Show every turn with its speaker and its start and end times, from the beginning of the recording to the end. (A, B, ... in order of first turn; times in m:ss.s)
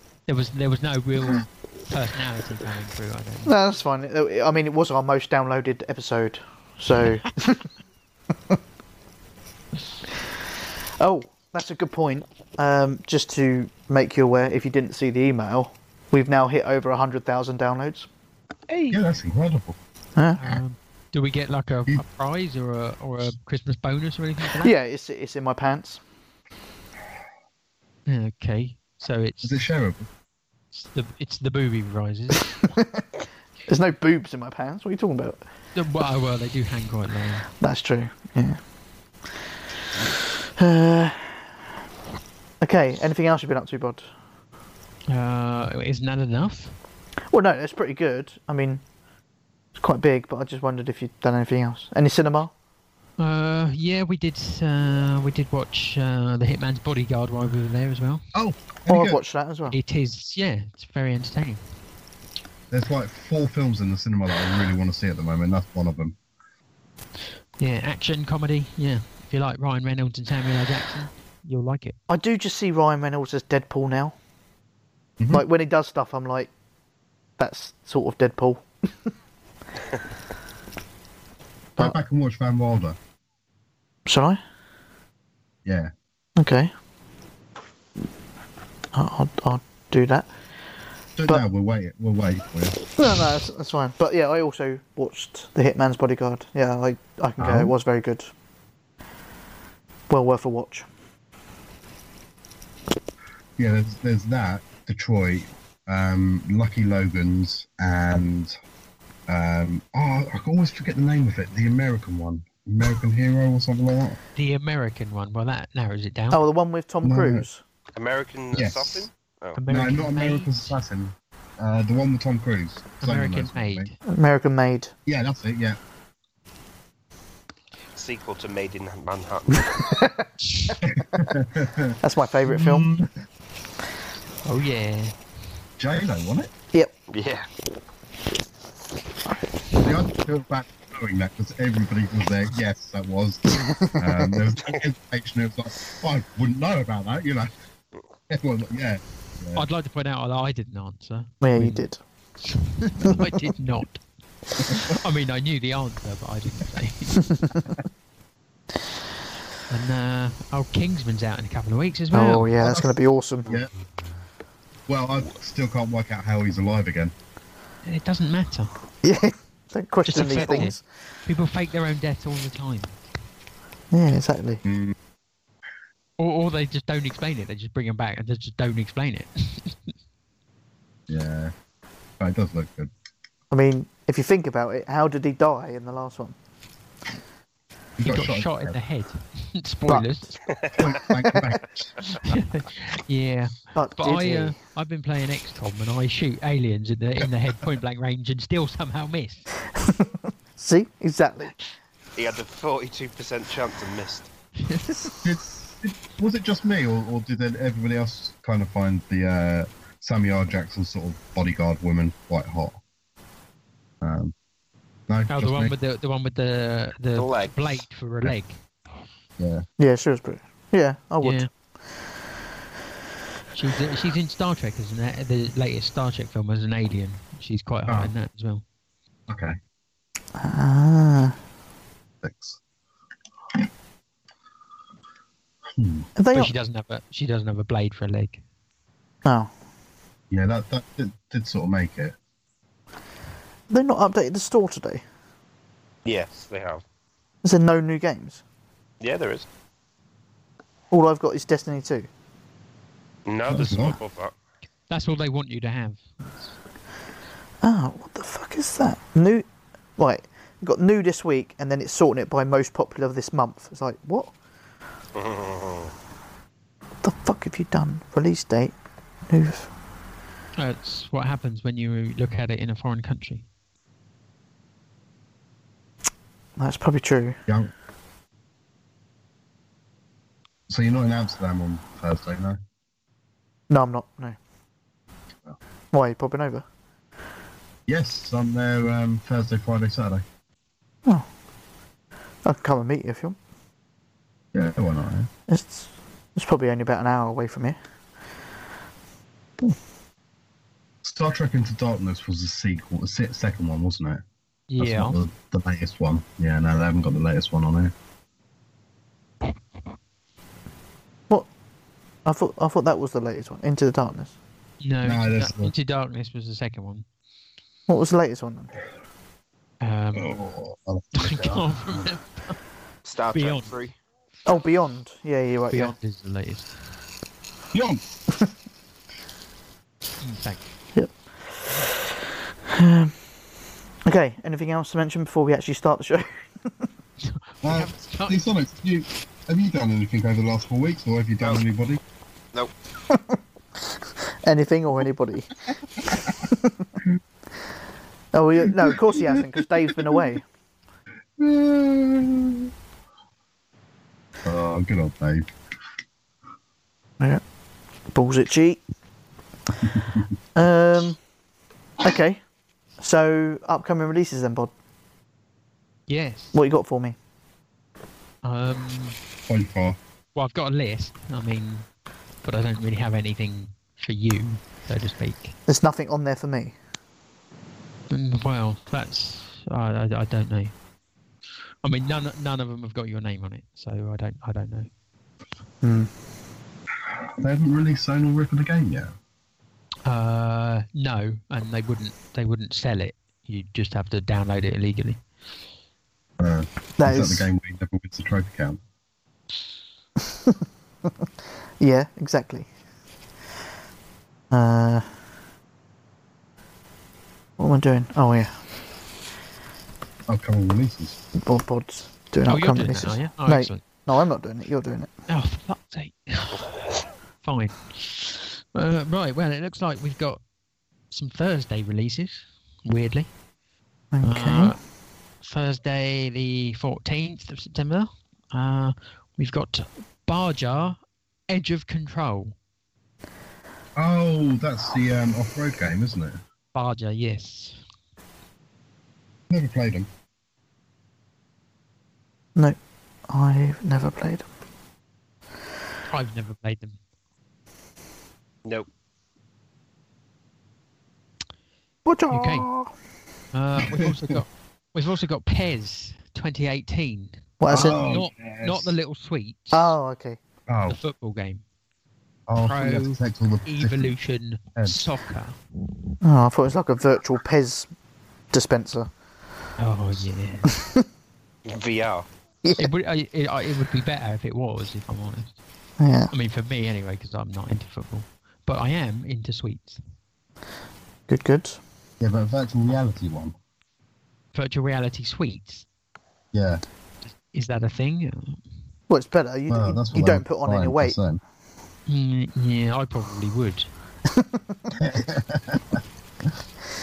0:00.3-0:03.5 A
0:03.4-0:07.7 B
0:11.0-0:18.1 B
0:18.7-0:19.0 C
0:18.9-0:19.8 D
0:20.4-0:24.7 A
0:24.6-0:26.0 B
0:28.0-0:29.6 A
0:29.4-0:30.0 D
0:30.7-0:32.7 A
0:33.7-0:35.4 B
0:35.7-0:37.4 A
0:37.6-0:38.6 B
0:40.6-0:41.4 B
0:42.6-0:44.1 B
0:45.1-0:46.7 A
0:47.3-0:48.8 B
0:49.8-0:52.5 B
0:53.2-0:58.2 A
0:58.3-0:59.2 D
0:58.9-0:59.8 B
0:59.7-1:01.6 A
1:02.7-1:06.2 D
1:07.6-1:12.0 A
1:12.1-1:14.1 B
1:15.3-1:16.5 B
1:17.4-1:18.7 B
1:21.8-1:23.0 D
1:24.1-1:24.4 B
1:25.6-1:25.9 D
1:26.4-1:26.7 B
1:28.9-1:30.3 B
1:31.2-1:32.8 D
1:33.0-1:38.3 B
1:37.4-1:37.7 D
1:40.1-1:40.9 B
1:43.6-1:48.5 D
1:49.3-1:54.2 D
1:54.4-1:56.4 A
1:56.3-1:57.6 B
1:57.0-1:57.4 D
1:58.0-1:59.6 C
1:58.5-1:59.1 D
1:59.6-2:00.8 A
1:59.7-2:03.9 D
2:03.0-2:03.9 A
2:04.1-2:04.9 B
2:05.0-2:05.8 D
2:08.0-2:09.9 C
2:09.8-2:10.3 B
2:10.8-2:13.1 D
2:12.0-2:12.9 B
2:14.4-2:15.2 A
2:15.8-2:16.5 D
2:17.1-2:17.5 C
2:19.8-2:27.5 D
2:23.7-2:24.3 B
2:28.3-2:29.6 D
2:29.5-2:31.8 A
2:31.4-2:32.0 B
2:32.4-2:34.0 A
2:34.6-2:37.5 A
2:37.4-2:37.7 B
2:39.7-2:42.6 A
2:42.1-2:43.5 B
2:42.6-2:42.9 D
2:43.4-2:43.7 D
2:44.9-2:47.1 D
2:47.8-2:48.7 A
2:49.0-2:50.8 B
2:50.1-2:52.9 A
2:53.9-2:54.6 B
2:54.6-2:55.0 D
2:56.2-2:59.8 A
3:01.1-3:01.5 D
3:02.2-3:02.9 D
3:03.5-3:06.3 B
3:08.0-3:08.8 D
3:08.0-3:10.4 A
3:09.9-3:10.1 B
3:10.5-3:10.8 C
3:10.7-3:12.0 D
3:12.1-3:19.4 A
3:13.7-3:14.6 B
3:19.8-3:21.5 B
3:22.2-3:24.3 C
3:24.6-3:25.1 A
3:25.2-3:32.8 D
3:34.0-3:34.3 D
3:35.1-3:35.7 D
3:35.3-3:38.6 A
3:37.1-3:37.8 C
3:39.4-3:39.6 D
3:39.8-3:41.4 B
3:41.2-3:41.5 A
3:43.5-3:48.6 A
3:47.9-3:48.1 D
3:49.3-3:49.6 D
3:50.4-3:51.4 B
3:52.2-3:52.6 D
3:55.7-3:56.1 D
3:56.2-3:56.5 B
3:56.3-3:58.4 A
3:59.2-3:59.5 B
4:00.3-4:02.2 D
4:03.7-4:05.0 B
4:06.0-4:06.8 C
4:07.4-4:08.4 B
4:09.0-4:09.4 C
4:10.9-4:12.1 B
4:13.3-4:14.3 C
4:13.5-4:14.0 D
4:14.9-4:16.2 A
4:17.6-4:19.4 B
4:20.0-4:24.3 B
4:25.1-4:25.9 C
4:27.0-4:28.7 B
4:29.3-4:29.7 B
4:30.6-4:33.4 A
4:36.6-4:37.4 B
4:40.7-4:42.6 D
4:43.7-4:44.4 B
4:45.9-4:46.6 B
4:47.9-4:50.2 D
4:52.4-4:53.4 B
4:54.5-4:55.3 D
4:55.5-4:57.8 B
5:01.0-5:04.2 D
5:04.7-5:05.2 A
5:04.8-5:07.9 D
5:12.2-5:14.3 B
5:14.8-5:17.0 A
5:15.0-5:15.7 D
5:17.9-5:18.7 B
5:19.8-5:20.4 A
5:20.1-5:22.1 D
5:21.1-5:22.6 A
5:23.0-5:23.9 C
5:23.3-5:23.7 A
5:24.4-5:25.9 B
5:25.7-5:26.7 A
5:27.7-5:28.0 D
5:30.2-5:30.6 A
5:30.9-5:31.7 B
5:32.7-5:33.1 B
5:34.0-5:36.4 B
5:37.2-5:38.4 A
5:37.6-5:42.0 D
5:43.1-5:45.5 B
5:46.5-5:46.9 B
5:48.3-5:50.4 B
5:48.9-5:49.4 D
5:49.9-5:50.2 D
5:51.4-5:52.7 D
5:54.4-5:55.5 D
5:58.1-5:58.8 B
5:59.9-6:00.2 D
6:00.5-6:01.2 B
6:02.0-6:02.4 B
6:03.0-6:04.7 B
6:06.1-6:06.5 A
6:06.5-6:07.2 B
6:08.4-6:09.2 A
6:09.5-6:10.0 D
6:10.3-6:11.9 A
6:12.4-6:15.6 A
6:15.7-6:16.8 B
6:18.1-6:20.7 A
6:21.8-6:24.9 A
6:25.8-6:26.1 B
6:27.1-6:29.1 D
6:30.0-6:35.2 A
6:36.4-6:38.8 D
6:37.0-6:37.5 B
6:41.8-6:42.7 B
6:44.5-6:45.1 B
6:47.6-6:48.5 B
6:50.3-6:51.2 D
6:51.3-6:55.1 B
6:52.4-6:53.8 A
6:55.3-6:56.7 A
6:57.4-7:00.4 A
7:01.1-7:03.3 A
7:04.1-7:04.8 B
7:04.2-7:04.8 A
7:05.4-7:12.6 A
7:14.0-7:16.4 D
7:16.7-7:17.8 A
7:19.5-7:20.1 D
7:23.3-7:24.5 B
7:26.1-7:27.0 A
7:32.0-7:32.9 B
7:32.3-7:32.7 A
7:33.5-7:39.9 A
7:33.9-7:34.2 D
7:37.6-7:38.0 B
7:37.7-7:38.9 D
7:39.7-7:40.4 B
7:40.7-7:41.0 D
7:40.9-7:41.6 A
7:42.5-7:44.1 D
7:42.6-7:45.6 A
7:46.2-7:47.9 B
7:48.5-7:49.1 B
7:49.8-7:50.7 A
7:50.7-7:51.0 B
7:51.7-7:52.2 C
7:52.6-7:52.9 B
7:52.8-7:55.5 A
7:56.0-7:56.3 B
7:56.3-8:00.0 A
8:01.3-8:01.8 B
8:02.2-8:03.5 D
8:04.5-8:05.8 A
8:06.5-8:06.8 D
8:07.2-8:08.6 A
8:09.1-8:11.2 B
8:09.7-8:11.4 D
8:12.1-8:13.9 A
8:14.3-8:14.6 B
8:14.9-8:16.0 D